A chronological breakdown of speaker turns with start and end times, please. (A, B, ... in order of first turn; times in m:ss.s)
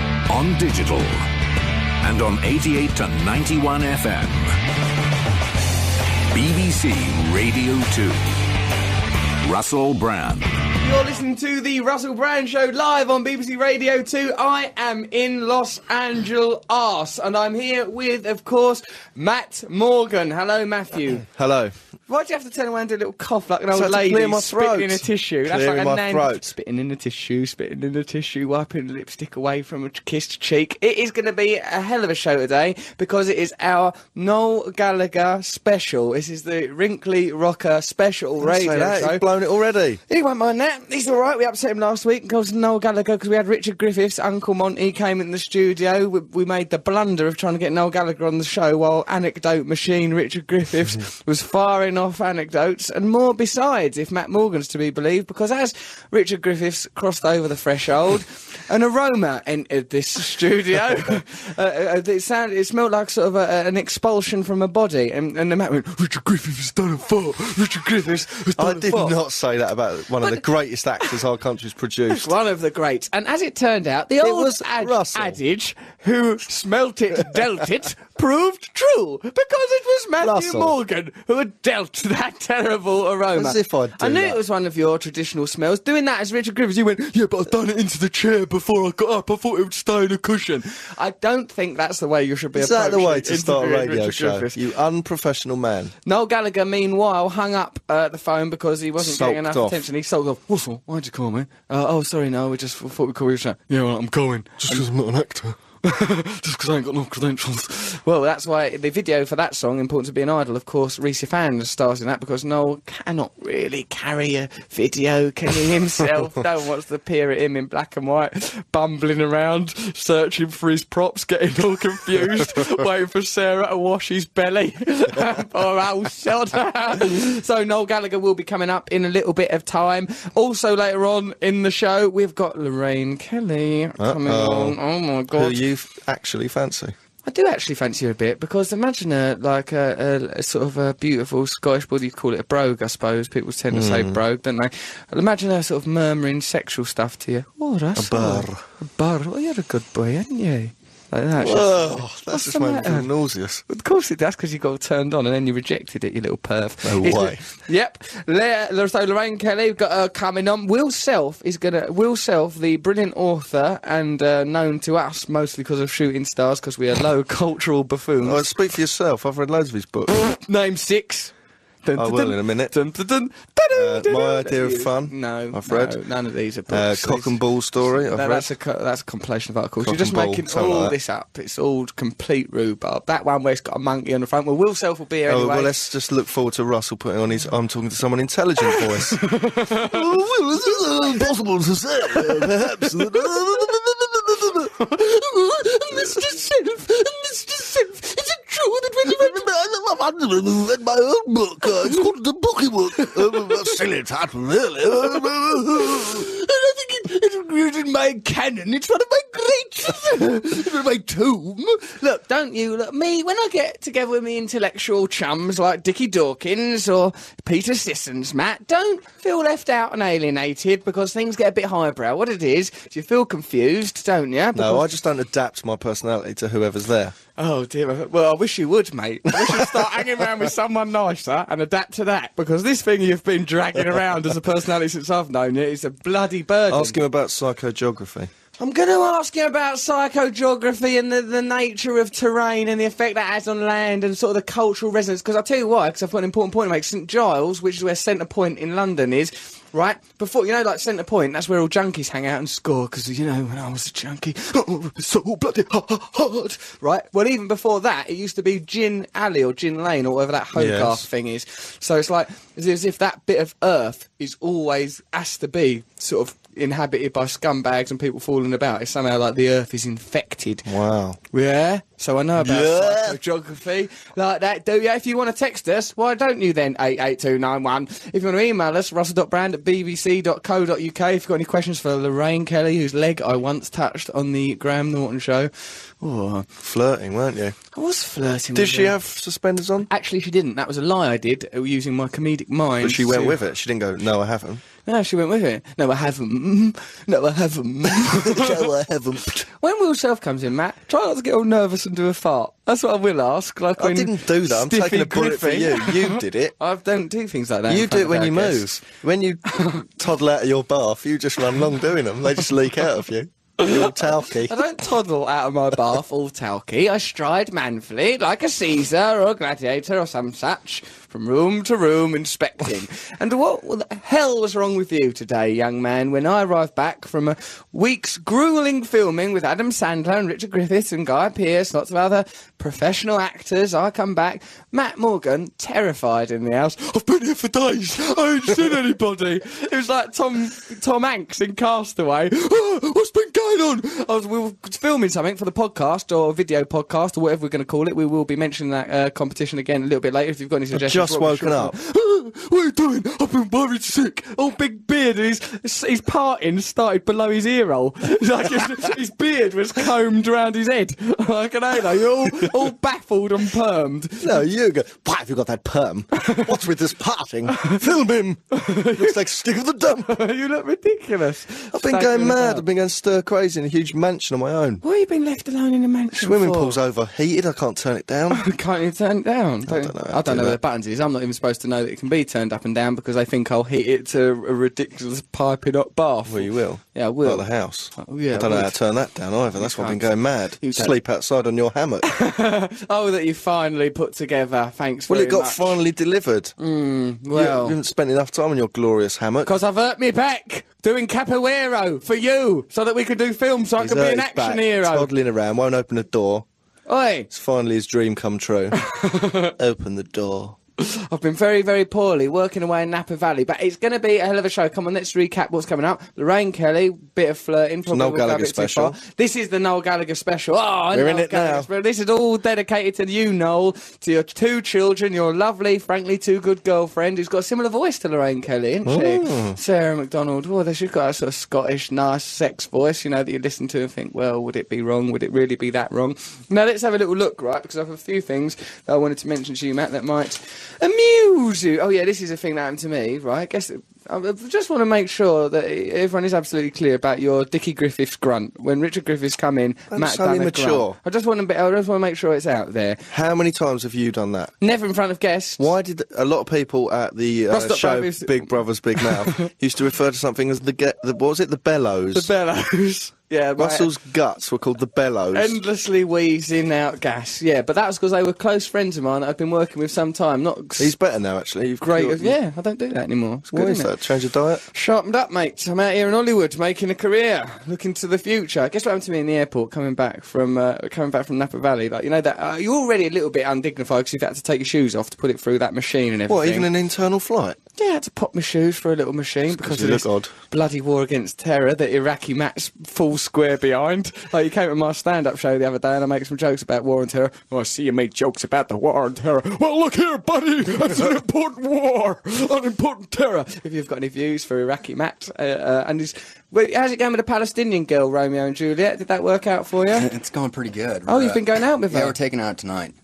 0:00.3-0:01.3 A
0:02.0-0:04.6 A
0:06.3-0:08.2 A
0:09.4-0:10.5 A
0:10.8-0:21.2 B
0:21.2-0:21.7 C
0:22.1-0:39.3 B
0:23.7-0:26.4 C
0:38.4-0:40.0 C
0:40.1-1:09.2 B
1:08.6-1:12.3 C
1:12.1-1:34.6 B
1:14.2-1:15.4 C
1:20.2-1:20.8 C
1:23.3-1:24.4 C
1:32.5-1:35.9 C
1:36.0-1:44.9 B
1:39.0-1:39.8 C
1:44.6-1:45.6 C
1:45.8-2:15.6 B
2:14.0-2:14.8 C
2:15.3-2:16.9 C
2:17.2-2:33.1 B
2:23.7-2:24.2 C
2:28.0-2:28.6 C
2:31.4-2:33.6 C
2:33.7-2:48.4 B
2:36.8-2:37.4 C
2:48.2-2:50.1 C
2:50.1-2:51.3 B
2:51.8-3:05.7 B
2:52.0-2:52.7 C
2:53.7-2:56.0 C
2:56.7-2:58.5 C
2:59.8-3:00.9 C
3:05.3-3:14.8 C
3:08.6-3:10.0 B
3:10.9-3:11.1 B
3:12.1-3:13.7 B
3:14.6-3:19.5 B
3:15.9-3:16.3 C
3:19.0-3:26.3 C
3:21.6-3:22.0 B
3:22.9-3:23.8 B
3:24.9-3:44.8 B
3:44.5-3:47.1 C
3:47.4-3:57.0 B
3:49.3-3:49.7 C
3:56.7-3:58.3 C
3:58.6-4:30.7 B
4:20.5-4:21.1 C
4:30.6-4:31.2 C
4:31.3-4:46.5 B
4:32.3-4:33.2 C
4:46.6-4:47.6 C
4:47.7-4:49.0 B
4:48.5-4:49.9 C
4:49.9-4:53.4 B
4:52.8-4:54.6 C
4:54.8-4:58.7 B
4:58.0-4:59.5 C
4:59.5-5:08.7 B
5:03.8-5:06.5 C
5:07.7-5:14.6 C
5:09.6-5:09.8 B
5:13.6-6:04.4 B
5:50.7-5:51.7 C
6:04.2-6:10.2 C
6:06.2-6:06.5 B
6:07.5-6:07.8 B
6:08.5-6:09.2 B
6:10.0-6:12.6 B
6:11.7-6:14.8 C
6:14.8-6:16.8 B
6:16.1-6:18.4 C
6:18.3-6:28.7 B
6:19.6-6:20.6 C
6:26.3-6:32.1 C
6:29.6-6:31.0 B
6:32.0-6:35.8 B
6:35.1-6:36.5 C
6:36.6-6:37.8 B
6:37.3-6:39.5 C
6:39.4-6:45.1 B
6:43.8-6:46.4 C
6:46.9-6:47.3 B
6:47.3-6:48.8 C
6:48.8-6:49.5 B
6:49.6-6:50.6 C
6:50.8-7:33.0 B
6:57.9-6:59.0 C
7:00.9-7:01.7 C
7:08.8-7:09.6 C
7:29.9-7:31.0 C
7:33.1-7:34.5 C
7:34.6-7:35.7 B
7:35.6-7:42.3 C
7:37.5-7:39.4 B
7:42.1-7:43.9 B
7:43.6-7:45.6 C
7:45.3-7:50.9 B
7:50.8-7:52.4 C
7:51.8-7:53.9 B
7:53.5-7:54.6 C
7:54.7-8:06.7 B
8:06.3-8:07.6 C
8:07.8-8:30.1 B
8:09.5-8:10.3 C
8:29.9-8:32.9 D
8:31.1-8:32.1 B